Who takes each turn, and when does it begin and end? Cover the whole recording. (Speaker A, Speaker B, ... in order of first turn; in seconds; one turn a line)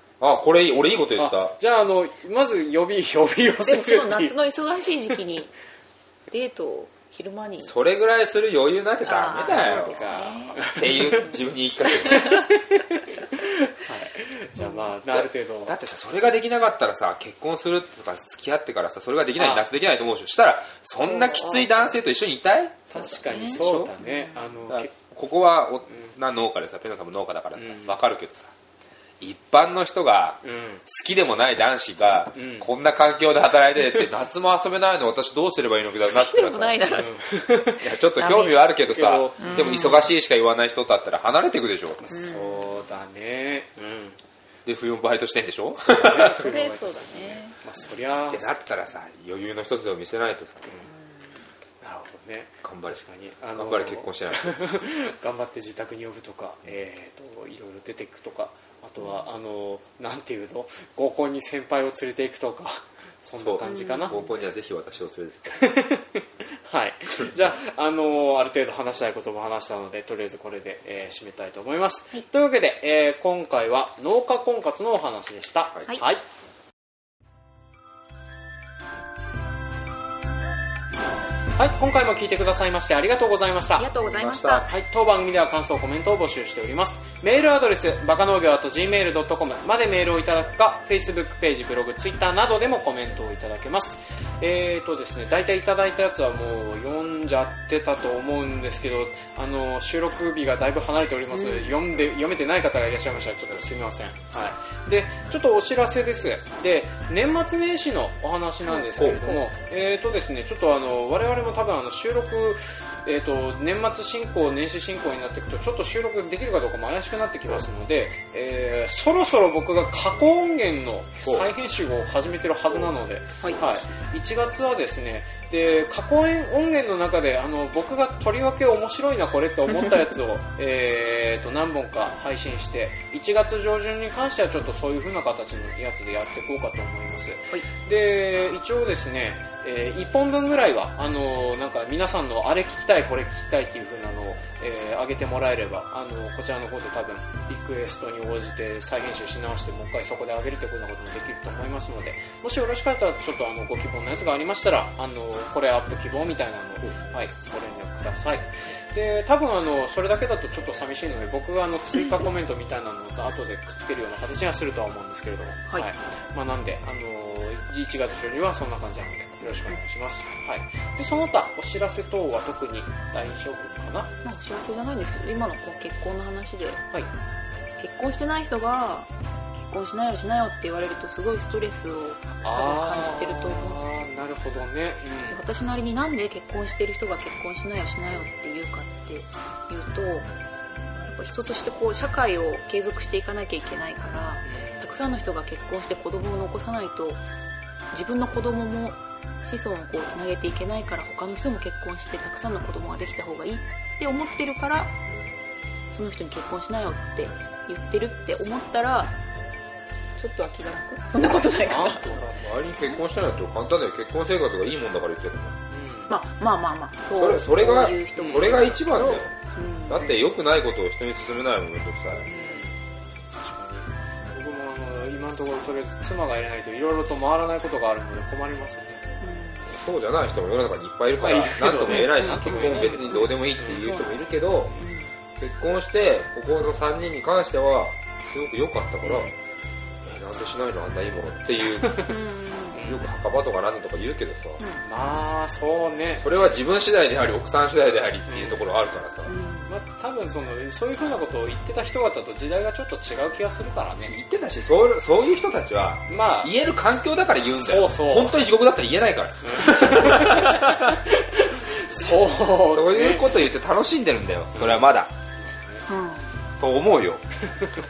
Speaker A: 0.2-1.5
Speaker B: 1.1-4.3
Speaker C: 3.6-5.5
Speaker C: 6.3-7.7
Speaker A: 7.6-10.1
Speaker C: 9.0-10.7
Speaker B: 9.4-11.3
Speaker A: 10.7-12.4
Speaker B: 11.8-15.8
Speaker C: 12.1-12.5
Speaker C: 14.6-14.8
Speaker A: 15.1-23.9
Speaker B: 19.4-19.7
Speaker B: 21.1-21.8
Speaker B: 22.9-24.9
Speaker C: 23.0-24.4
Speaker A: 24.7-28.5
Speaker B: 25.9-26.1
Speaker B: 27.6-27.9
Speaker A: 29.2-36.9
Speaker B: 30.4-30.8
Speaker B: 32.3-32.7
Speaker C: 36.0-38.7
Speaker B: 36.9-37.8
Speaker A: 37.8-42.0
Speaker B: 38.9-39.9
Speaker C: 39.4-40.1
Speaker B: 42.0-44.2
Speaker C: 42.1-42.7
Speaker A: 44.6-46.4
Speaker B: 45.9-48.5
Speaker C: 46.1-47.6
Speaker A: 48.3-50.8
Speaker B: 51.8-64.2
Speaker A: 52.6-54.6
Speaker A: 63.4-65.7
Speaker C: 63.6-64.3
Speaker B: 65.5-76.2
Speaker B: 81.6-83.9
Speaker C: 83.8-84.7
Speaker A: 84.1-84.6
Speaker B: 84.7-174.1
Speaker C: 101.3-101.8
Speaker A: 108.7-109.4
Speaker A: 121.2-121.5
Speaker A: 123.4-123.8
Speaker C: 174.2-176.8
Speaker C: 177.8-184.2
Speaker B: 182.4-185.4
Speaker C: 185.3-190.3
Speaker C: 191.0-197.2
Speaker B: 194.4-195.0
Speaker C: 197.9-204.9
Speaker C: 205.9-209.2
Speaker C: 210.2-212.1
Speaker B: 211.5-212.4
Speaker A: 212.4-215.6
Speaker B: 215.7-216.2
Speaker C: 216.1-220.2
Speaker A: 217.1-219.3
Speaker B: 218.2-218.8
Speaker A: 219.9-222.3
Speaker B: 222.2-222.7
Speaker B: 223.3-229.1
Speaker C: 229.2-229.7
Speaker A: 229.7-234.7
Speaker B: 231.2-233.9
Speaker C: 231.8-235.1
Speaker B: 234.6-234.9
Speaker A: 235.4-239.3
Speaker B: 239.0-239.3
Speaker A: 240.0-242.1
Speaker B: 241.8-242.1
Speaker C: 242.1-242.8
Speaker B: 242.7-243.0
Speaker A: 242.8-244.6
Speaker C: 244.6-244.8
Speaker B: 244.8-246.3
Speaker A: 246.2-249.3
Speaker B: 248.3-248.6
Speaker C: 249.3-249.7
Speaker B: 249.7-254.2
Speaker A: 254.0-261.0
Speaker B: 256.1-256.5
Speaker B: 257.5-258.4
Speaker B: 259.4-263.3
Speaker A: 262.6-265.1
Speaker B: 264.5-264.9
Speaker B: 265.4-265.9
Speaker C: 265.9-266.3
Speaker A: 266.6-267.2